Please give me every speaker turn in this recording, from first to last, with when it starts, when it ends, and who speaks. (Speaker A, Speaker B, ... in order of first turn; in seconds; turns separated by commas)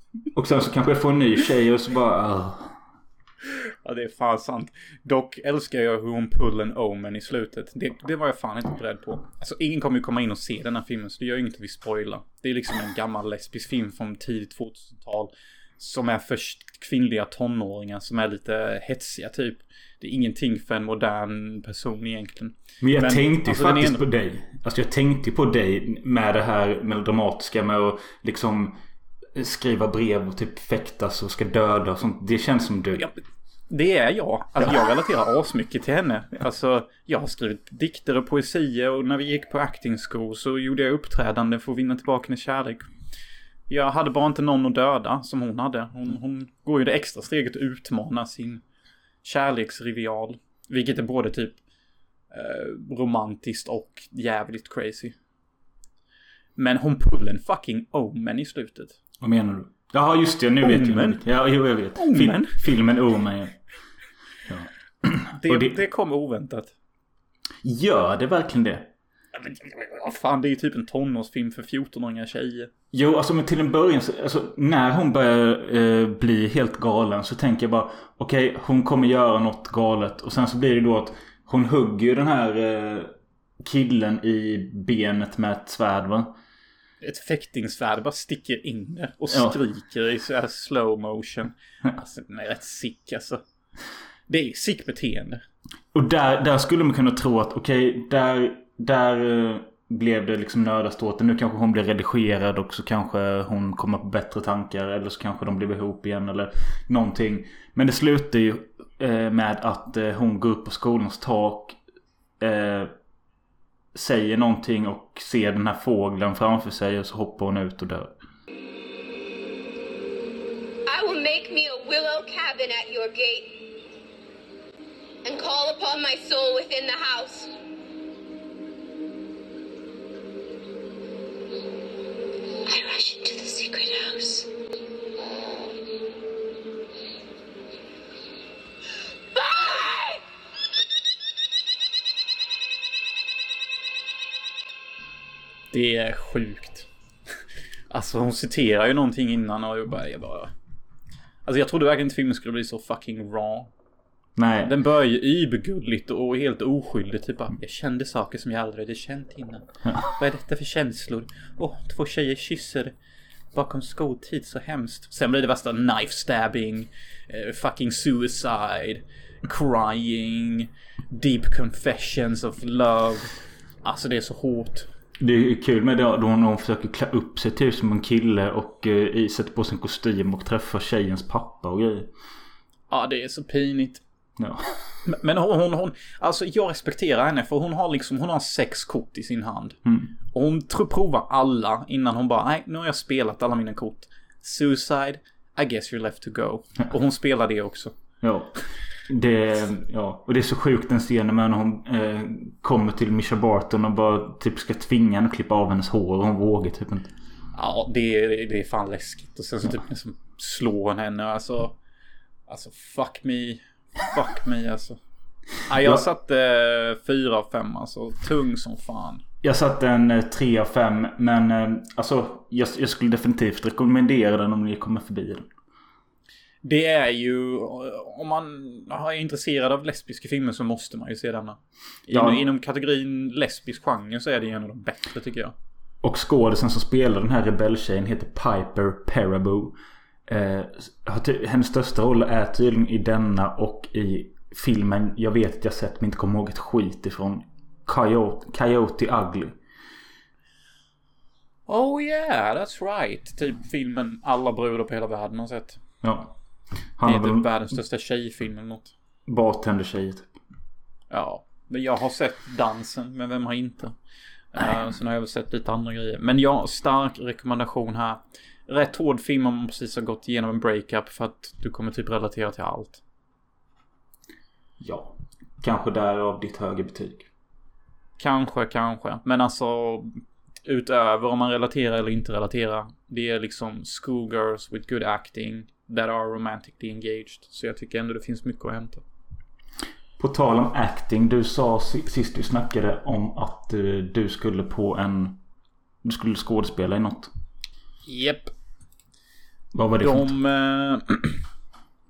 Speaker A: 0.3-2.7, Speaker B: 3.8-24.0, Speaker A: 22.8-28.8, Speaker A: 29.3-33.1, Speaker B: 33.7-42.8, Speaker B: 43.7-48.6, Speaker B: 49.2-51.6, Speaker B: 52.3-55.1, Speaker B: 56.6-59.0, Speaker A: 59.2-63.6, Speaker B: 60.6-61.2, Speaker B: 62.0-62.6, Speaker A: 64.5-65.8, Speaker B: 65.4-66.7, Speaker A: 67.6-68.9, Speaker B: 69.3-72.7, Speaker A: 72.9-86.3, Speaker B: 87.0-93.4, Speaker A: 89.3-89.6, Speaker B: 94.3-95.4, Speaker A: 95.9-111.8, Speaker A: 112.4-112.9, Speaker A: 113.9-118.1, Speaker C: 120.8-123.8, Speaker C: 125.2-127.5, Speaker C: 132.7-134.5, Speaker C: 139.3-140.2, Speaker B: 145.7-146.9, Speaker B: 147.9-150.5, Speaker B: 151.4-153.7, Speaker A: 154.3-154.7, Speaker B: 154.6-162.9, Speaker B: 163.5-174.9, Speaker A: 175.2-182.1, Speaker B: 182.9-184.0, Speaker A: 184.4-184.7, Speaker B: 185.1-189.8, Speaker A: 189.8-190.1, Speaker B: 190.3-197.9, Speaker A: 198.2-207.1, Speaker B: 207.5-211.8, Speaker B: 212.5-215.0, Speaker B: 215.7-219.2, Speaker A: 215.8-216.0, Speaker A: 219.4-225.5, Speaker B: 226.6-235.5, Speaker A: 232.1-232.4, Speaker A: 236.0-249.6, Speaker B: 251.7-255.8, Speaker A: 256.0-256.3, Speaker A: 257.0-257.5, Speaker B: 257.0-258.9, Speaker A: 259.3-260.3, Speaker B: 261.1-263.9, Speaker B: 264.5-273.0, Speaker A: 274.8-277.3, Speaker B: 278.2-289.0, Speaker A: 290.2-295.4, Speaker A: 296.0-297.3, Speaker B: 298.1-298.5, Speaker A: 299.7-300.3, Speaker B: 300.0-301.4